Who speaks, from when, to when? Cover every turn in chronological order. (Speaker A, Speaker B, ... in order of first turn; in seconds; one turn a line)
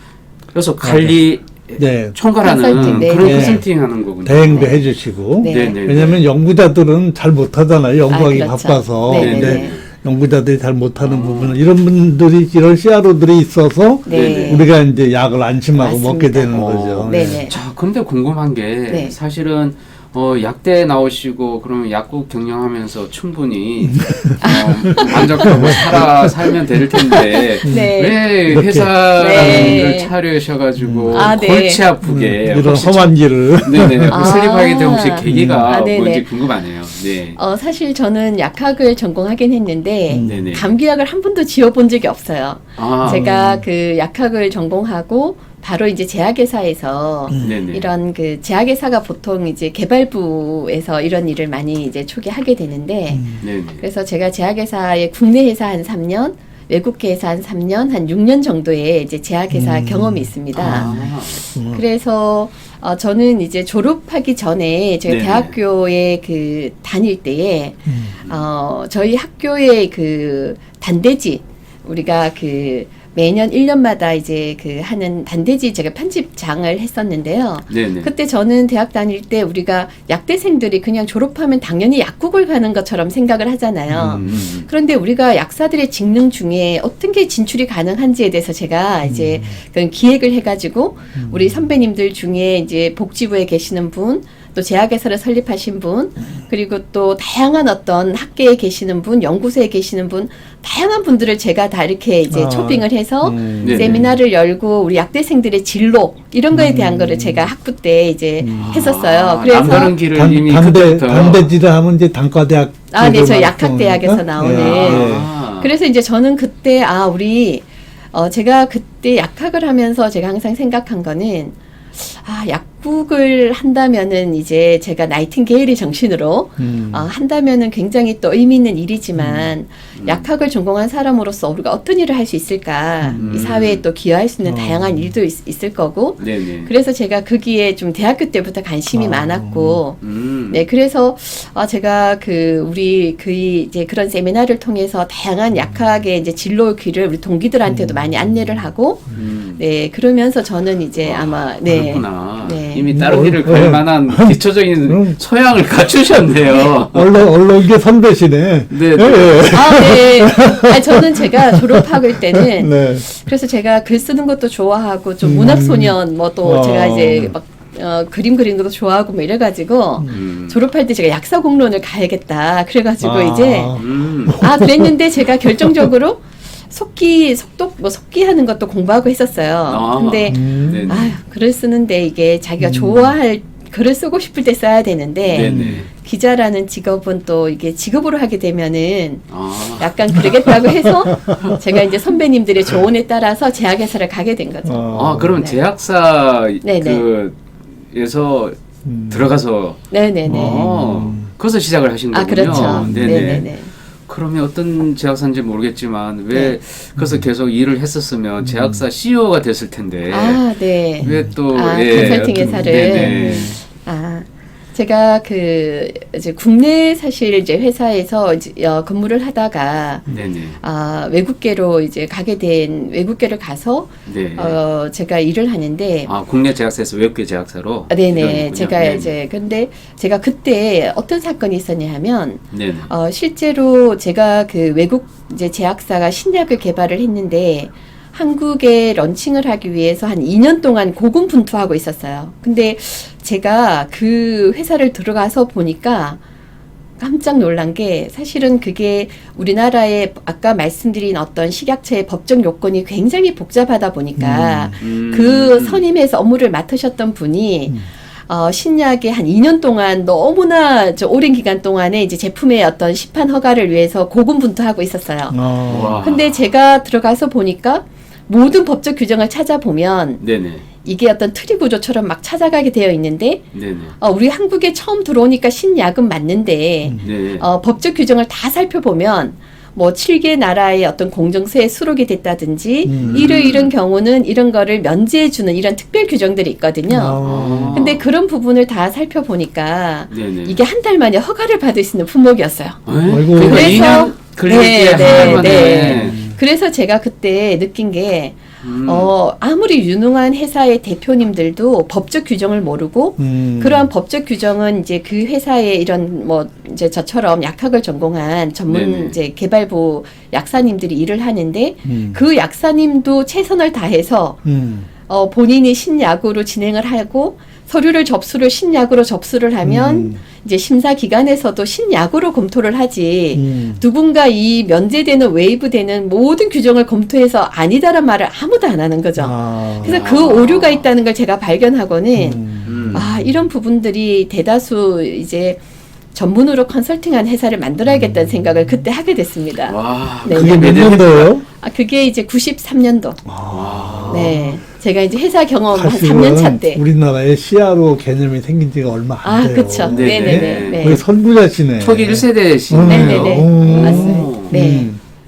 Speaker A: 0.5-4.8
Speaker B: 0.8-1.2
Speaker B: 1.8-2.1
Speaker C: 2.4-3.6
Speaker B: 2.7-3.6
Speaker B: 4.2-17.4
Speaker C: 4.5-4.8
Speaker C: 5.4-5.8
Speaker A: 5.4-6.2
Speaker C: 8.1-9.8
Speaker A: 9.1-9.9
Speaker A: 11.0-11.6
Speaker C: 14.0-14.6
Speaker A: 14.1-14.6
Speaker C: 15.8-17.5
Speaker A: 16.5-37.4
Speaker C: 18.9-19.1
Speaker B: 23.8-26.3
Speaker C: 24.4-26.0
Speaker C: 26.9-28.2
Speaker B: 27.6-27.9
Speaker B: 28.4-29.9
Speaker C: 29.1-30.1
Speaker B: 30.8-31.4
Speaker C: 31.1-31.9
Speaker B: 32.0-34.2
Speaker C: 34.1-36.2
Speaker B: 35.2-35.7
Speaker C: 37.4-61.0
Speaker B: 40.1-40.5
Speaker A: 40.2-40.7
Speaker A: 42.8-43.3
Speaker B: 43.0-43.6
Speaker B: 47.3-47.6
Speaker A: 47.4-47.9
Speaker B: 53.1-53.5
Speaker A: 53.4-53.8
Speaker B: 59.5-61.8
Speaker A: 60.5-61.4
Speaker C: 61.7-109.9
Speaker A: 65.0-65.5
Speaker B: 67.9-68.2
Speaker A: 77.7-78.1
Speaker B: 83.9-84.2
Speaker A: 84.0-84.7
Speaker B: 89.0-89.6
Speaker B: 91.2-91.7
Speaker B: 102.3-104.1
Speaker A: 103.6-104.1
Speaker B: 106.5-107.5
Speaker B: 108.4-108.8
Speaker A: 108.6-111.5
Speaker B: 110.1-115.3
Speaker C: 112.9-153.0
Speaker A: 114.5-115.7
Speaker B: 126.6-127.1
Speaker B: 129.2-129.5
Speaker A: 129.9-130.2
Speaker B: 133.0-133.4
Speaker A: 133.2-133.8
Speaker B: 134.4-135.1
Speaker A: 136.2-136.7
Speaker B: 138.9-139.8
Speaker A: 140.0-140.7
Speaker B: 147.7-148.7
Speaker A: 149.2-149.6
Speaker A: 151.0-157.1
Speaker B: 152.9-155.2
Speaker B: 156.9-163.1
Speaker A: 158.7-159.9
Speaker C: 159.4-173.8
Speaker B: 165.2-167.3
Speaker A: 170.1-170.6
Speaker B: 173.0-175.9
Speaker A: 173.8-174.4
Speaker C: 174.4-195.6
Speaker A: 179.7-181.2
Speaker B: 180.3-181.1
Speaker B: 182.6-183.1
Speaker A: 185.3-185.9
Speaker B: 185.4-185.8
Speaker A: 189.3-190.2
Speaker B: 190.2-191.6
Speaker B: 194.6-195.4
Speaker A: 194.9-210.4
Speaker C: 196.6-197.0
Speaker B: 198.8-199.3
Speaker C: 199.9-200.7
Speaker B: 200.2-201.3
Speaker C: 202.1-203.7
Speaker B: 202.4-203.4
Speaker B: 207.0-207.3
Speaker B: 208.4-208.8
Speaker C: 210.1-220.0
Speaker A: 211.0-213.6
Speaker B: 211.0-211.3
Speaker B: 211.9-213.6
Speaker A: 220.1-220.6
Speaker C: 220.6-226.1
Speaker A: 224.1-224.6
Speaker A: 226.1-229.1
Speaker C: 227.9-246.2
Speaker A: 232.5-232.9
Speaker C: 247.0-270.2
Speaker B: 254.2-254.8
Speaker A: 254.8-255.8
Speaker B: 265.3-266.1
Speaker A: 265.7-266.4
Speaker A: 270.2-270.6
Speaker C: 270.8-273.4
Speaker A: 273.5-273.9
Speaker C: 274.0-314.4
Speaker A: 277.0-277.4
Speaker B: 282.8-283.3
Speaker A: 283.0-283.7
Speaker B: 286.9-287.8
Speaker A: 287.2-288.0
Speaker A: 290.1-290.6
Speaker A: 292.9-296.2
Speaker B: 293.1-294.0
Speaker B: 295.1-296.4
Speaker A: 298.6-299.1
Speaker B: 303.2-303.9
Speaker A: 308.7-309.1
Speaker B: 311.9-312.2
Speaker B: 314.4-314.9
Speaker C: 315.1-332.4
Speaker B: 319.6-320.2
Speaker B: 323.3-323.8
Speaker B: 329.2-330.0
Speaker A: 329.8-330.9
Speaker B: 332.1-333.4
Speaker A: 332.6-333.1
Speaker C: 332.9-335.6
Speaker C: 336.1-341.0
Speaker B: 337.9-338.8
Speaker A: 339.7-341.4
Speaker B: 340.3-341.4
Speaker C: 341.6-343.2
Speaker B: 343.2-344.4
Speaker A: 343.5-344.5
Speaker C: 344.1-346.8
Speaker B: 345.7-355.0
Speaker C: 349.2-351.0
Speaker A: 349.9-351.0
Speaker A: 351.8-354.6
Speaker C: 352.8-354.9